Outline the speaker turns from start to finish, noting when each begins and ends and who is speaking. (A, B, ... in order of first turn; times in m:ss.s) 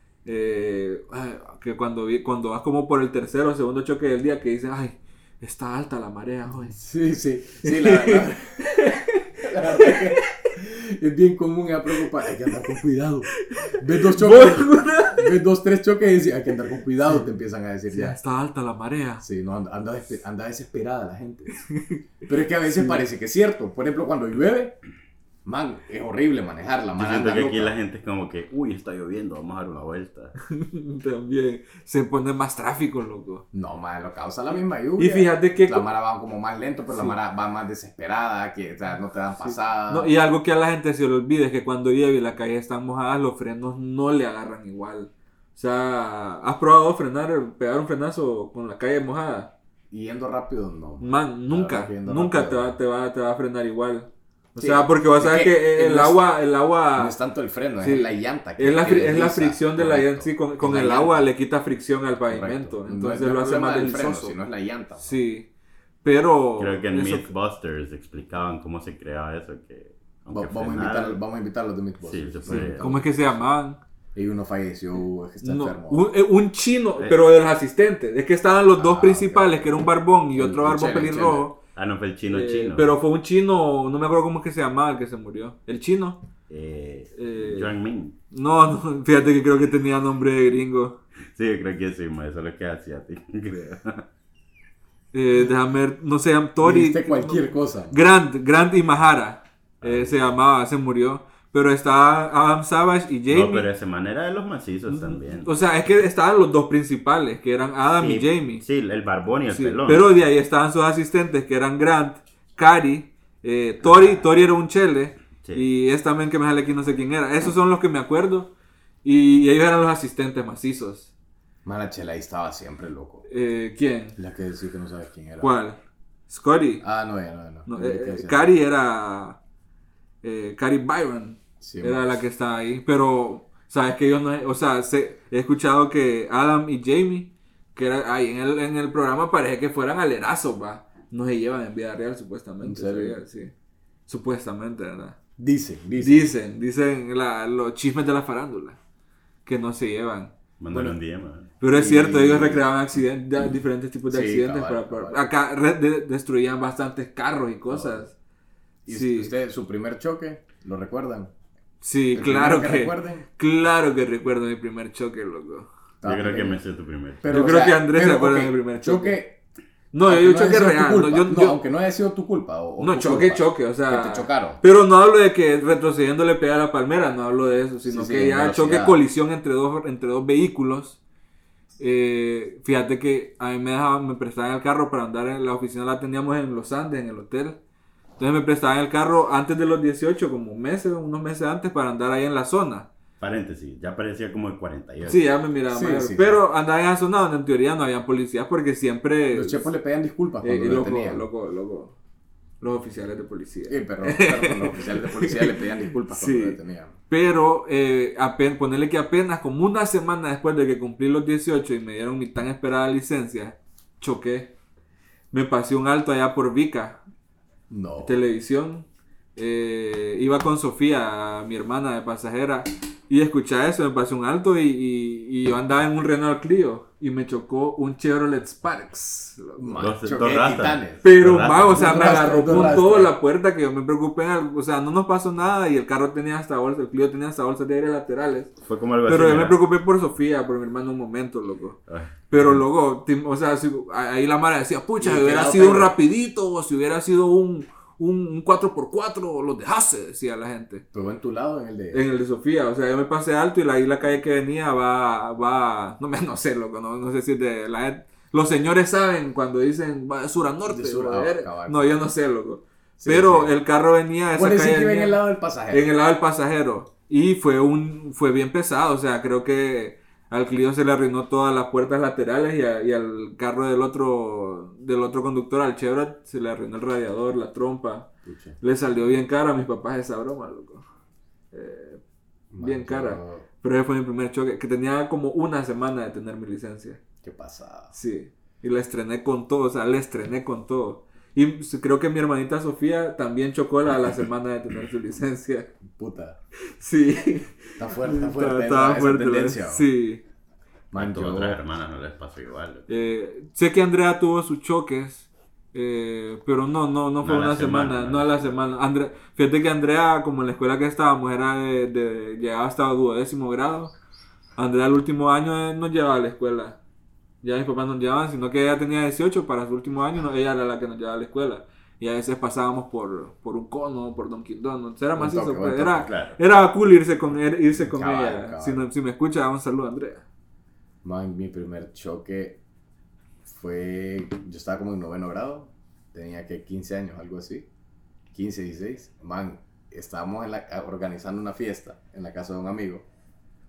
0:00.2-0:06.8 A
0:06.6-0:08.7 B
0:07.6-0:10.4 A
0:09.4-0:18.2 B
0:13.5-0:15.3 A
0:17.9-0:19.2 A
0:19.2-0:21.6 B
0:21.6-0:22.0 A
0:22.2-0:24.7 B
0:22.7-0:23.0 A
0:25.4-0:27.7 B
0:27.0-0:30.3 C
0:30.4-0:33.4 A
0:33.5-0:40.1 B
0:35.0-0:35.8 A
0:39.4-0:49.5 A
0:49.9-0:52.8 B
0:51.0-0:57.1 A
0:54.5-0:56.2 B
0:56.9-1:01.3 B
0:57.8-1:04.3 A
1:02.3-1:05.2 B
1:05.0-1:05.5 A
1:06.0-1:07.3 A
1:06.6-1:11.2 C
1:10.3-1:13.4 B
1:12.0-1:12.9 C
1:12.5-1:13.8 A
1:14.1-1:16.1 B
1:15.4-1:21.5 A
1:18.8-1:19.8 B
1:20.3-1:21.5 B
1:21.7-1:22.9 C
1:22.3-1:26.2 A
1:26.5-1:28.1 C
1:27.2-1:27.7 A
1:28.3-1:31.0 A
1:31.3-1:34.0 C
1:35.1-1:43.7 A
1:36.6-1:38.0 B
1:39.8-1:40.2 C
1:43.3-1:45.5 C
1:44.9-1:48.6 A
1:47.9-1:50.1 C
1:49.5-1:58.5 A
1:53.8-1:54.2 C
1:59.0-2:01.1 A
2:01.6-2:03.2 B
2:03.3-2:04.2 A
2:04.2-2:05.5 B
2:05.4-2:06.8 A
2:06.8-2:08.5 B
2:07.6-2:09.4 A
2:10.2-2:23.5 A
2:11.6-2:12.2 B
2:22.6-2:23.2 B
2:24.1-2:25.2 A
2:25.4-2:26.3 B
2:26.0-2:28.8 A
2:29.4-2:30.3 A
2:30.6-2:31.5 C
2:30.7-2:31.0 B
2:31.6-2:38.1 A
2:31.6-2:32.6 B
2:34.1-2:35.2 B
2:37.7-2:38.1 B
2:38.8-2:41.3 B
2:38.9-2:39.3 A
2:41.8-2:45.7 A
2:42.1-2:43.2 B
2:46.0-2:46.6 B
2:46.0-2:47.2 C
2:47.2-2:49.4 B
2:47.3-2:49.2 A
2:49.9-2:51.6 A
2:50.0-2:54.6 B
2:52.8-3:01.0 A
2:57.8-2:59.0 B
3:01.8-3:07.6 A
3:08.2-3:12.9 A
3:13.2-3:15.2 C
3:15.0-3:19.7 A
3:15.7-3:16.4 B
3:19.3-3:21.2 B
3:20.4-3:21.9 A
3:22.6-3:26.6 A
3:23.7-3:27.0 B
3:27.1-3:34.5 A
3:35.3-3:37.0 A
3:37.7-3:38.1 B
3:38.0-3:49.8 A
3:49.6-3:51.0 B
3:49.8-3:52.7 C
3:51.0-3:58.5 A
3:51.7-3:53.1 B
3:58.6-3:59.6 C
3:59.0-4:10.8 A
4:01.9-4:02.6 C
4:05.0-4:05.9 B
4:10.9-4:12.0 B
4:11.9-4:40.8 A
4:20.7-4:22.0 B
4:23.0-4:23.5 B
4:24.3-4:25.9 B
4:38.2-4:38.6 B
4:41.5-4:42.0 A
4:42.5-4:43.4 B
4:42.6-4:47.0 A
4:47.2-4:47.9 B
4:47.9-4:55.7 A
4:55.9-4:56.4 B
4:56.8-5:00.2 A
4:57.8-4:59.8 B
5:00.9-5:01.6 B
5:00.9-5:02.9 C
5:02.9-5:13.9 A
5:07.2-5:08.5 C
5:14.6-5:16.8 A
5:17.4-5:30.2 A
5:25.1-5:26.1 B
5:26.0-5:26.4 C
5:27.7-5:28.8 B
5:31.0-5:32.6 B
5:33.4-5:37.6 B
5:38.3-5:43.0 B